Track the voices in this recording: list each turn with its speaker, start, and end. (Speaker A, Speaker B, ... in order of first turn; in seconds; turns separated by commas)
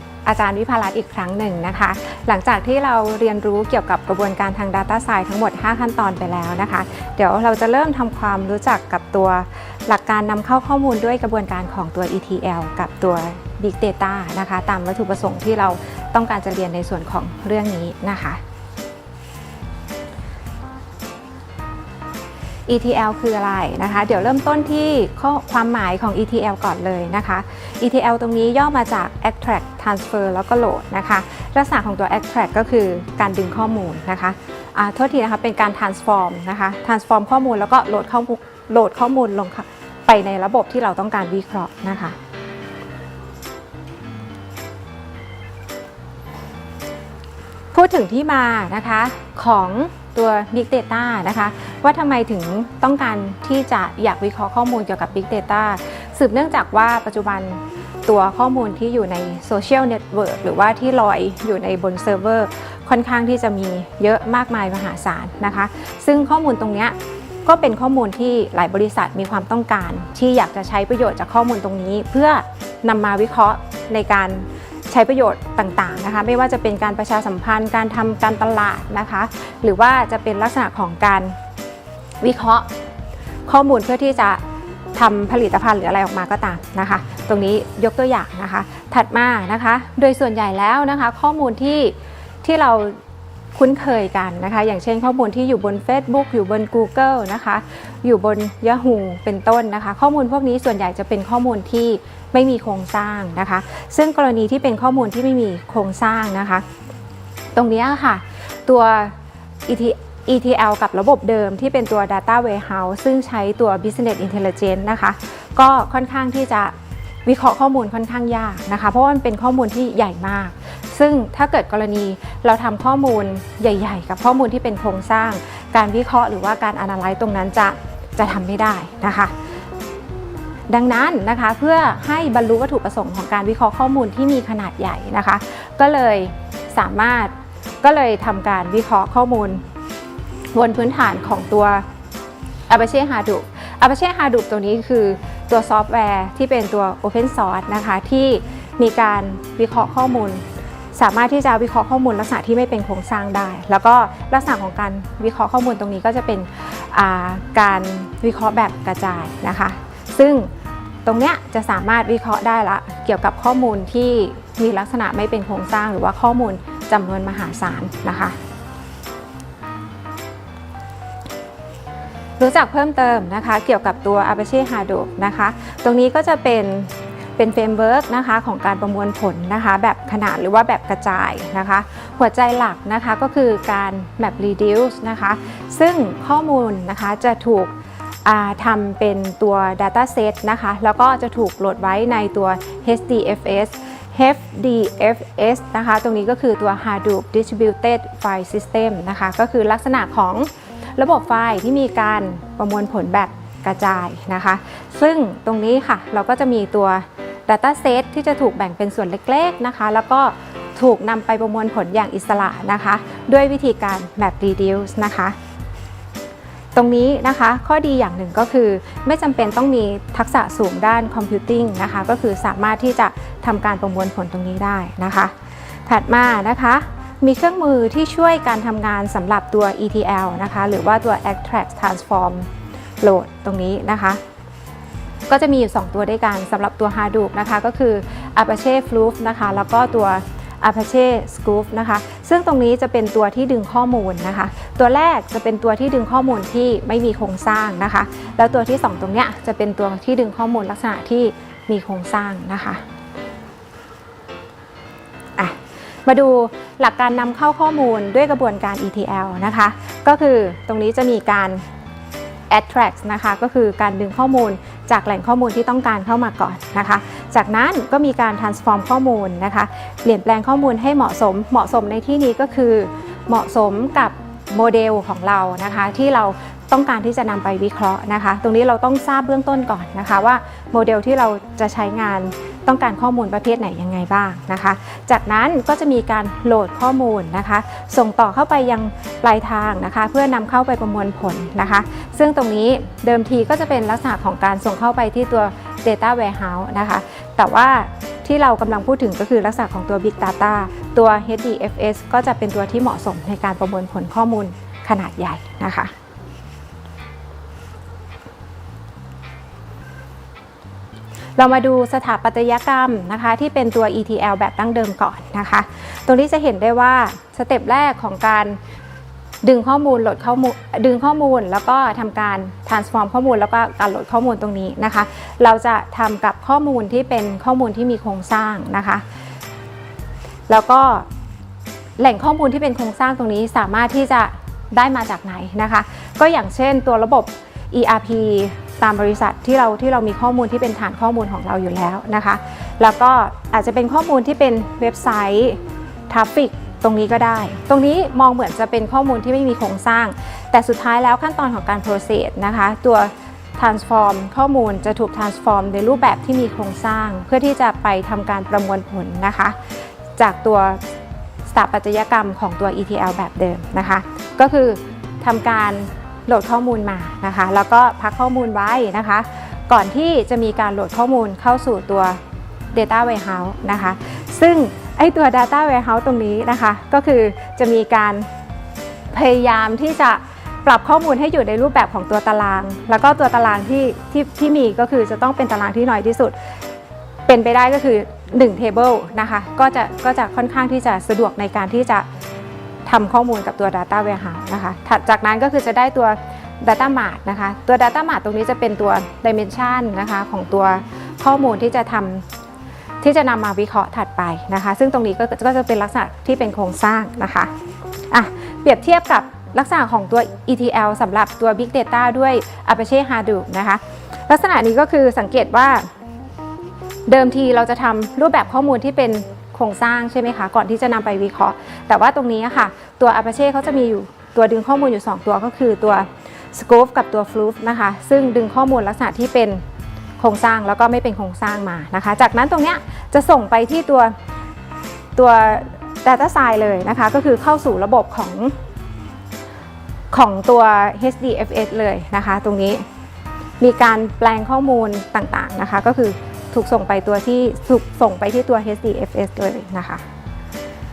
Speaker A: 0.2-18.4, Speaker A: 22.7-42.1, Speaker A: 47.7-81.3, Speaker A: 82.2-82.7, Speaker A: 83.5-84.4, Speaker A: 84.9-93.0, Speaker A: 93.5-106.6, Speaker A: 107.5-109.1, Speaker A: 109.7-116.7, Speaker A: 117.2-129.3, Speaker A: 130.7-139.6, Speaker A: 140.5-141.8, Speaker A: 142.7-150.4, Speaker A: 150.9-160.5, Speaker A: 161.0-168.4, Speaker A: 172.4-187.7, Speaker A: 188.2-215.3, Speaker A: 216.7-225.3, Speaker A: 225.8-232.5, Speaker A: 233.0-234.2, Speaker A: 235.3-252.8, Speaker A: 255.4-261.6, Speaker A: 262.5-305.9, Speaker A: 311.4-318.6, Speaker A: 319.4-329.0, Speaker A: 330.5-331.1, Speaker A: 332.0-359.6, Speaker A: 360.2-360.8, Speaker A: 361.5-372.2, Speaker A: 372.7-378.3, Speaker A: 379.1-386.4, Speaker A: 387.3-392.1, Speaker A: 392.9-402.2, Speaker A: 403.0-407.5, Speaker A: 408.1-415.9, Speaker A: 417.1-429.6, Speaker A: 430.2-434.1, Speaker A: 435.1-438.6, Speaker A: 440.1-442.8, Speaker A: 443.6-450.0